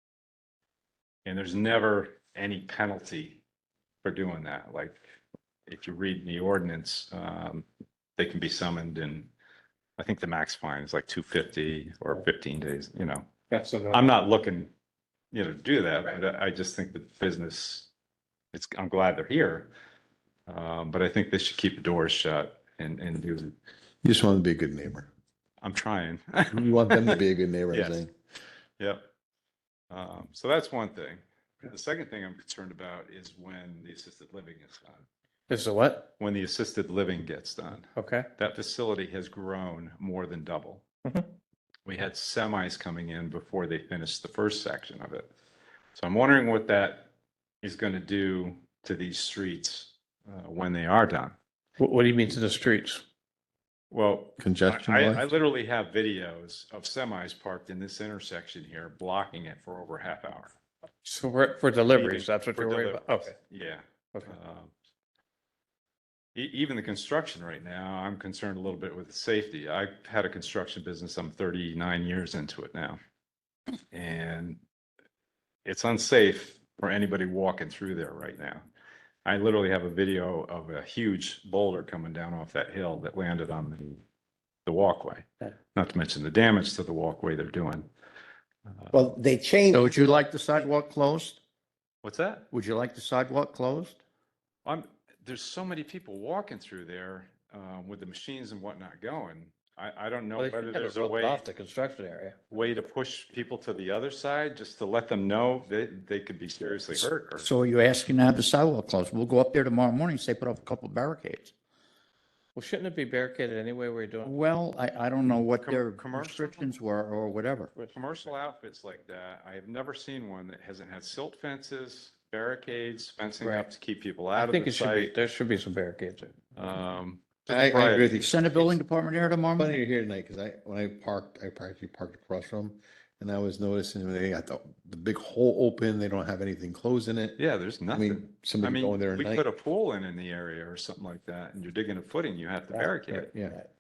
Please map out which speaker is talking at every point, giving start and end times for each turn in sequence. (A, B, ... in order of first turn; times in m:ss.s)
0:01.2-0:03.4 A
0:04.0-0:05.0 A
0:05.7-0:07.7 A
0:08.2-0:09.3 A
0:10.0-0:13.3 A
0:13.5-0:14.0 B
0:13.9-0:14.7 A
0:15.3-0:17.9 A
0:18.5-0:19.7 A
0:20.5-0:23.6 A
0:24.0-0:25.1 C
0:25.6-0:27.2 A
0:26.5-0:28.1 C
0:27.7-0:28.0 A
0:28.8-0:29.1 A
0:29.9-0:35.1 A
0:35.5-0:36.1 B
0:36.2-0:40.8 A
0:38.0-0:38.3 B
0:41.9-0:45.3 A
0:45.9-0:47.1 A
0:47.6-0:51.4 A
0:51.8-0:53.0 B
0:53.9-1:00.5 A
0:54.4-0:55.3 C
1:01.0-1:03.4 B
1:02.0-1:04.7 A
1:06.4-1:13.0 A
1:13.9-1:14.6 A
1:15.6-1:18.6 A
1:19.2-1:24.0 A
1:24.7-1:27.9 A
1:28.9-1:30.2 D
1:29.7-1:31.4 E
1:32.0-1:32.4 A
1:32.5-1:34.0 E
1:34.6-1:41.4 A
1:40.4-1:42.4 B
1:42.5-1:47.5 A
1:47.4-1:51.5 E
1:52.6-1:54.4 B
1:54.2-1:57.7 E
1:55.5-1:56.7 A
1:57.9-2:05.1 A
2:03.4-2:03.7 B
2:04.4-2:06.4 B
2:06.6-2:08.8 A
2:07.5-2:08.3 C
2:08.0-2:09.8 E
2:09.6-2:17.4 C
2:17.4-2:23.3 A
2:17.9-2:19.4 C
2:22.7-2:23.7 D
2:23.2-2:23.6 C